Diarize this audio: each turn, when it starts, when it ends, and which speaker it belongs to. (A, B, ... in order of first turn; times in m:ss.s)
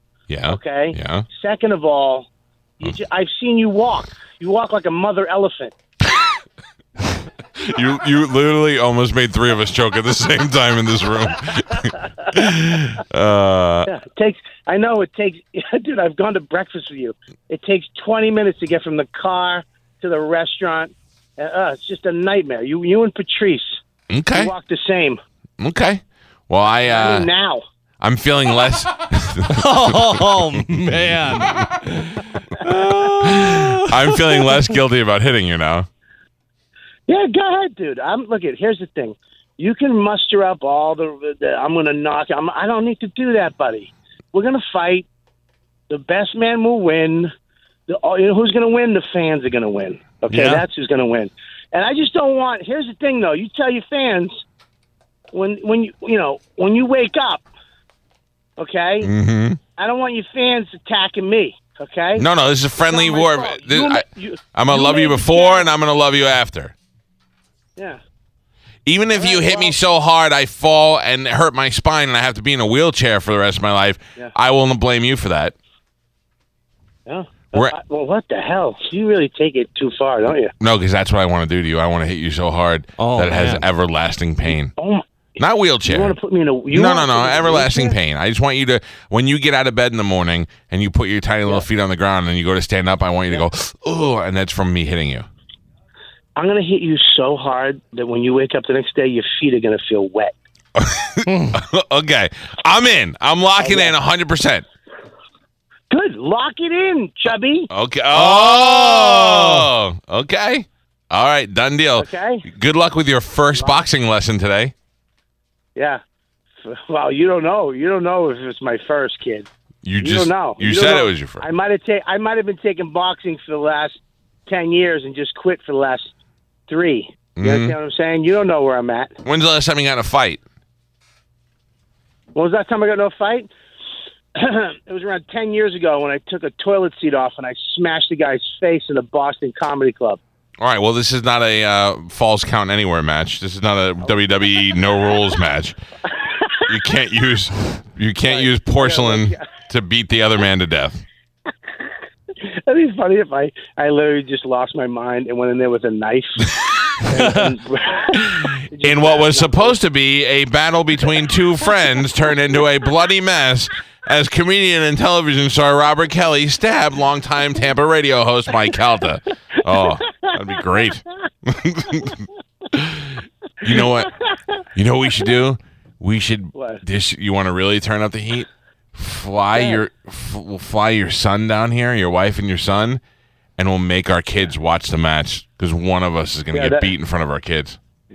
0:00.3-0:01.2 A
0:00.5-0:02.3 B
0:02.8-0:05.7 B
0:07.6-0:13.9 A
0:13.9-0:23.8 B
0:24.1-0:24.5 A
0:24.3-0:25.2 B
0:25.6-0:27.3 A
0:26.8-0:27.6 B
0:28.0-0:30.0 A
0:29.5-0:34.6 C
0:33.2-0:35.9 A
0:37.1-0:45.1 B
0:45.9-0:47.3 B
0:47.9-0:54.4 B
0:50.3-0:50.6 C
0:55.3-0:57.5 B
0:58.6-0:59.1 B
0:59.0-0:59.6 A
0:59.8-1:05.7 B
1:02.2-1:06.8 A
1:08.9-1:15.6 A
1:09.2-1:09.8 B
1:17.1-1:20.5 B
1:20.6-1:24.7 A
1:23.0-1:23.6 C
1:24.5-1:25.0 B
1:25.4-1:26.2 A
1:25.8-1:28.0 B
1:26.7-1:35.3 A
1:36.4-1:40.3 B
1:40.8-1:44.6 A
1:41.3-1:41.6 C
1:43.6-1:44.0 B
1:45.9-1:47.7 B
1:47.7-1:54.7 A
1:48.1-1:49.6 C
1:52.0-1:52.4 B
1:53.5-1:53.9 B
1:55.8-1:56.0 B
1:56.6-1:59.5 B
1:59.8-2:01.4 A
2:00.0-2:04.0 B
2:04.5-2:06.1 B
2:06.7-2:09.2 B
2:07.4-2:07.7 A
2:09.2-2:10.4 A
2:12.4-2:13.5 B
2:14.4-2:20.2 B
2:20.6-2:25.8 A
2:24.0-2:25.0 B
2:26.1-2:26.7 B
2:26.7-2:31.0 A
2:28.2-2:29.5 B
2:32.4-2:39.8 B
2:38.1-2:54.1 A
2:54.8-3:03.0 A
2:56.5-2:56.8 B
2:59.6-2:59.8 B
3:03.6-3:07.8 A
3:06.5-3:06.9 B